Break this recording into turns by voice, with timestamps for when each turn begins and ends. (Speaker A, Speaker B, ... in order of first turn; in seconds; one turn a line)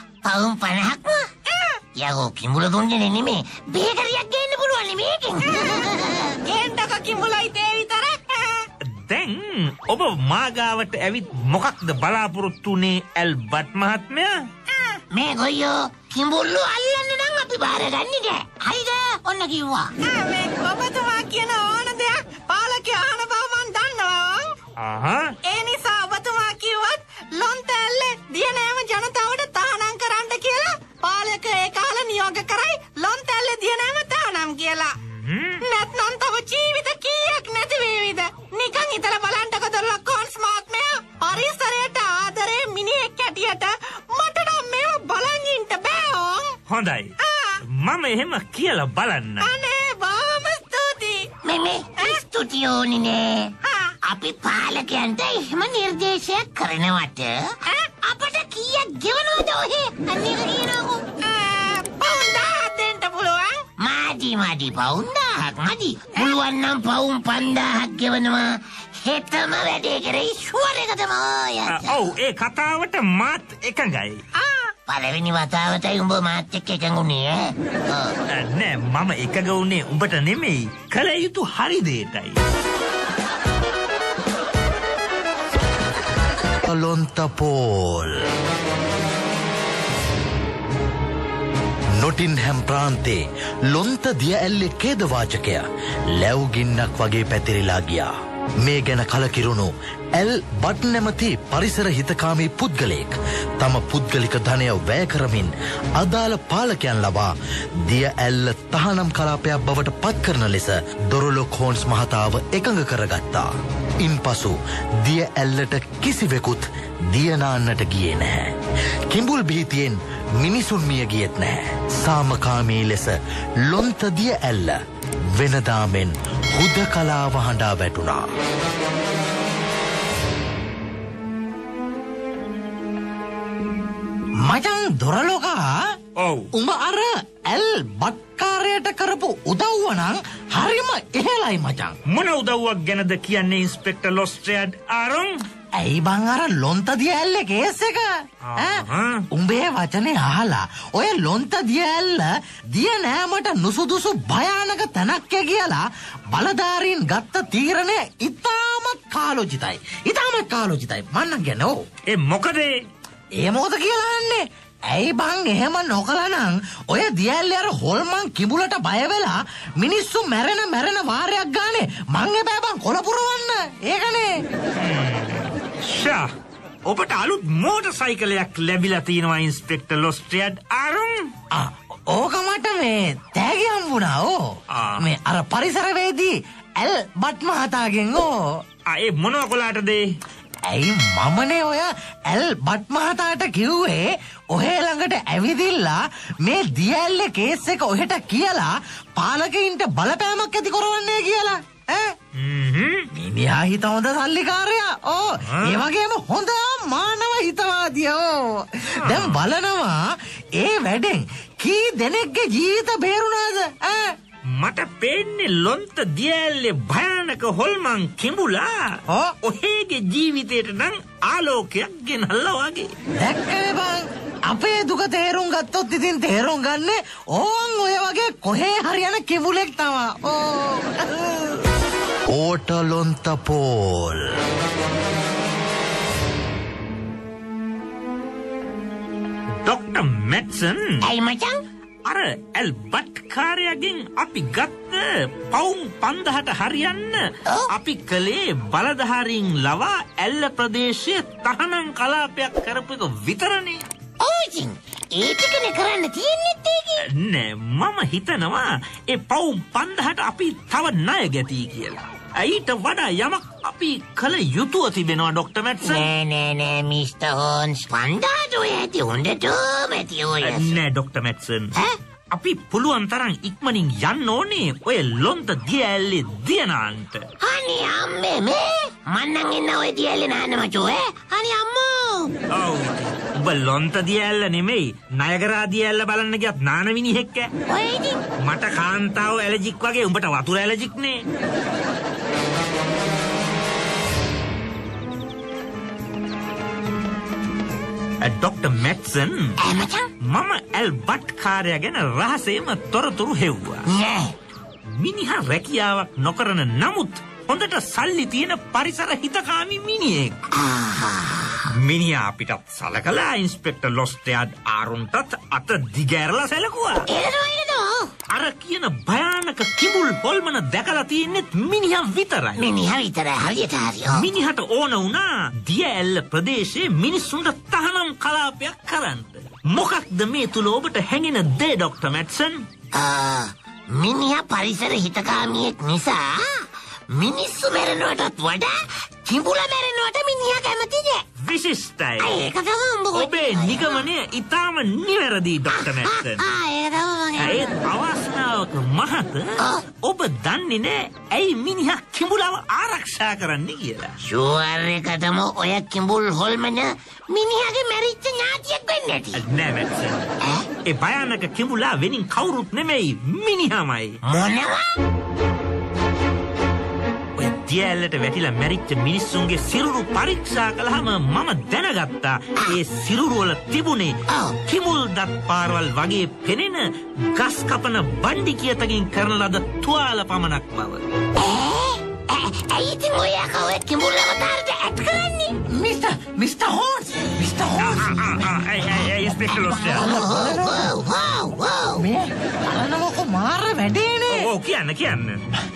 Speaker A: 0.2-1.3
Speaker B: 1.5-1.8
Speaker A: 1.9-6.4
Speaker B: 5.4-8.7
Speaker C: 8.8-14.4
Speaker B: 14.7-15.0
Speaker A: 15.1-19.9
Speaker B: 20.0-24.5
Speaker C: 24.8-25.3
Speaker B: 25.4-34.9
Speaker C: 35.0-35.6
Speaker B: 35.6-46.6
Speaker C: 46.7-47.1
Speaker B: 47.2-47.6
Speaker C: 47.7-49.5
Speaker B: 49.4-51.3
Speaker A: 51.4-53.5
Speaker B: 53.6-53.9
Speaker A: 54.1-61.1
Speaker B: 57.7-57.9
Speaker B: 61.2-63.6
Speaker A: 63.8-72.0
Speaker C: 71.7-74.2
Speaker B: 74.3-74.7
Speaker A: 74.9-78.2
Speaker C: 78.3-82.4
Speaker D: 86.6-88.2
Speaker D: 92.0-95.6
Speaker D: 96.2-98.1
Speaker D: 98.6-107.3
Speaker D: 107.9-113.5
Speaker D: 114.0-118.5
Speaker D: 119.1-123.2
Speaker D: 123.7-124.8
Speaker D: 125.4-128.2
Speaker E: 134.4-135.7
Speaker C: 136.2-136.5
Speaker E: 136.6-141.9
Speaker C: 142.1-145.4
Speaker E: 145.8-148.1
Speaker C: 148.4-149.2
Speaker E: 149.3-161.8
Speaker C: 162.1-162.8
Speaker E: 163.4-174.3
Speaker C: 174.8-176.3
Speaker C: 176.9-181.3
Speaker E: 181.5-184.4
Speaker C: 184.7-185.1
Speaker E: 185.0-188.4
Speaker C: 188.9-190.1
Speaker E: 190.7-202.1
Speaker C: 202.4-203.1
Speaker E: 203.2-208.3
Speaker C: 205.5-205.9
Speaker C: 209.0-209.4
Speaker E: 209.1-210.0
Speaker E: 210.6-214.1
Speaker C: 214.5-218.7
Speaker C: 219.4-222.9
Speaker E: 223.2-230.9
Speaker D: 232.3-234.2
Speaker C: 239.7-241.0
Speaker A: 241.0-241.6
Speaker C: 242.1-253.8
Speaker A: 254.2-257.1
Speaker C: 257.1-266.1
Speaker A: 265.8-270.8
Speaker C: 270.4-271.8
Speaker C: 272.3-277.3
Speaker A: 277.4-282.3
Speaker C: 282.5-287.5
Speaker A: 287.7-288.2
Speaker C: 288.4-291.2
Speaker C: 298.2-299.6
Speaker A: 299.6-300.1
Speaker C: 300.2-303.9
Speaker A: 303.9-304.3
Speaker C: 304.9-310.4
Speaker A: 310.6-311.6
Speaker C: 311.7-317.1
Speaker A: 317.1-318.1
Speaker C: 318.3-322.7
Speaker A: 322.6-324.3
Speaker C: 324.1-332.6
Speaker A: 332.9-341.2
Speaker C: 341.4-342.4
Speaker A: 342.2-344.1
Speaker C: 343.1-346.4
Speaker A: 345.7-347.8
Speaker C: 347.4-354.2
Speaker A: 349.6-349.8
Speaker A: 354.2-359.4
Speaker C: 359.4-360.3
Speaker A: 360.4-360.7
Speaker C: 360.9-364.2
Speaker A: 364.3-364.9
Speaker C: 367.4-381.0
Speaker A: 374.3-374.6
Speaker A: 381.4-385.6
Speaker E: 385.7-388.4
Speaker C: 387.8-390.2
Speaker A: 389.4-392.1
Speaker E: 390.1-390.9
Speaker E: 392.0-394.5
Speaker C: 394.3-395.4